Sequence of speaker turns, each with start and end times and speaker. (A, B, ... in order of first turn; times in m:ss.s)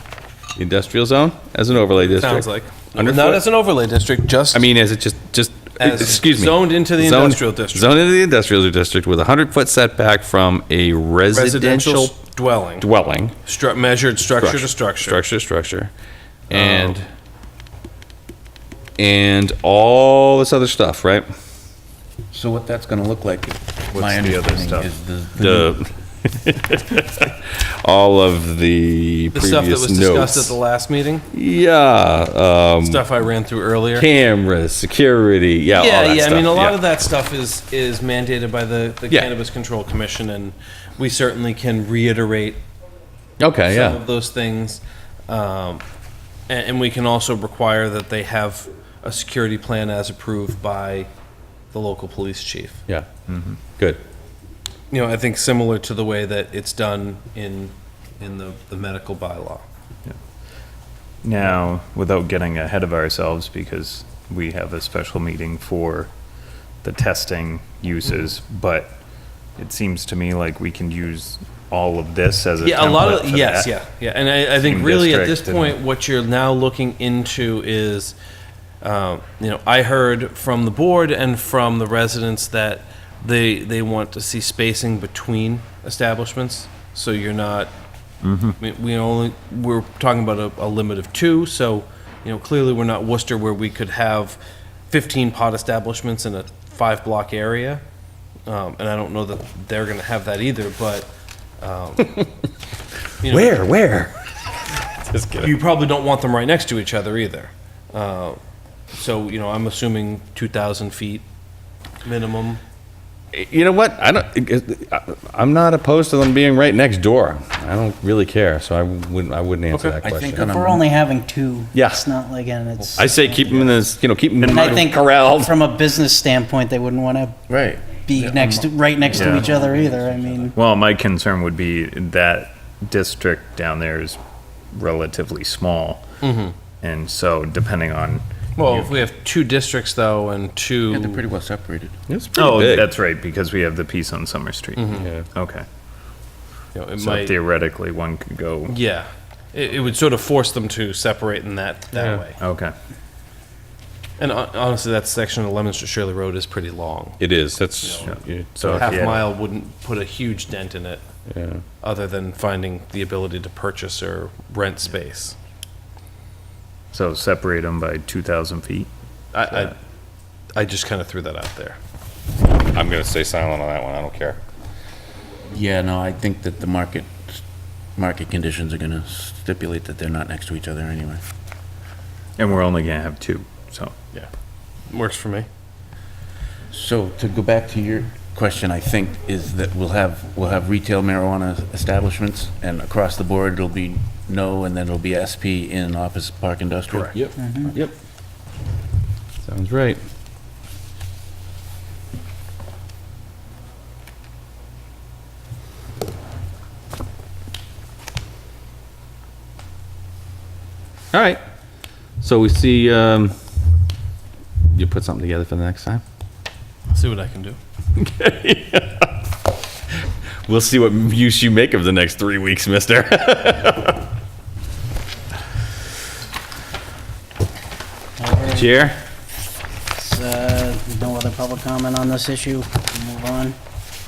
0:00.6-0:03.4 A
0:02.0-0:04.7 B
0:04.5-0:12.2 A
0:05.8-0:08.0 B
0:11.3-0:12.9 B
0:12.8-0:13.4 A
0:13.4-0:15.2 B
0:14.4-0:15.9 A
0:16.5-0:17.1 A
0:16.5-0:17.0 B
0:19.0-0:21.3 A
0:22.3-0:25.8 C
0:23.9-0:24.9 D
0:25.4-0:30.6 A
0:29.3-0:31.3 B
0:31.3-0:33.1 A
0:32.8-0:34.1 B
0:33.9-0:36.8 A
0:35.7-0:42.6 B
0:43.4-0:44.0 A
0:43.7-0:45.8 B
0:46.5-0:51.1 B
0:51.7-0:52.8 B
0:53.3-0:53.7 D
0:53.7-0:54.0 A
0:54.9-0:59.6 B
1:01.2-1:06.1 D
1:06.8-1:09.0 D
1:09.6-1:13.7 D
1:12.6-1:18.2 B
1:14.5-1:15.8 D
1:18.8-1:27.7 B
1:28.2-1:28.6 D
1:28.6-1:37.8 B
1:38.5-1:42.2 B
1:43.2-1:43.7 B
1:43.2-1:44.1 A
1:45.1-1:45.6 A
1:45.4-1:48.4 B
1:48.9-1:51.3 B
1:52.0-1:52.6 B
1:53.3-2:00.5 A
1:59.7-2:00.0 B
2:00.0-2:00.9 C
2:00.3-2:03.7 E
2:01.7-2:02.1 A
2:03.0-2:05.5 A
2:04.4-2:04.8 D
2:04.4-2:07.4 E
2:07.5-2:08.7 C
2:07.9-2:10.6 E
2:09.2-2:09.6 D
2:10.5-2:14.2 D
2:14.7-2:16.0 D
2:16.2-2:16.6 B
2:16.8-2:19.0 D
2:18.6-2:21.2 B
2:20.9-2:21.9 C
2:22.1-2:22.9 A
2:22.4-2:25.7 D
2:24.8-2:25.1 B
2:24.9-2:25.3 A
2:26.7-2:27.4 B
2:27.0-2:28.8 D
2:28.7-2:32.4 B
2:32.0-2:32.2 A
2:32.4-2:32.7 D
2:34.2-2:37.2 B
2:37.2-2:39.3 A
2:37.8-2:38.1 B
2:38.0-2:39.3 D
2:38.6-2:41.0 B
2:41.3-2:41.6 A
2:41.8-2:45.4 B
2:46.9-2:48.9 D
2:49.3-2:49.8 B
2:50.5-2:51.8 B
2:52.7-2:54.4 A
2:55.5-2:57.4 C
2:58.0-3:01.2 C
3:02.4-3:04.0 D
3:04.9-3:05.5 B
3:06.7-3:17.8 C
3:17.1-3:17.9 A
3:17.4-3:17.7 E
3:19.4-3:20.0 A
3:31.1-3:31.4 A
3:32.2-3:33.3 A
3:34.7-3:36.0 A
3:36.9-3:37.6 B
3:38.0-3:39.1 A
3:40.5-3:44.0 A
3:48.2-3:48.9 E
3:48.5-3:49.0 A
3:49.9-3:53.6 E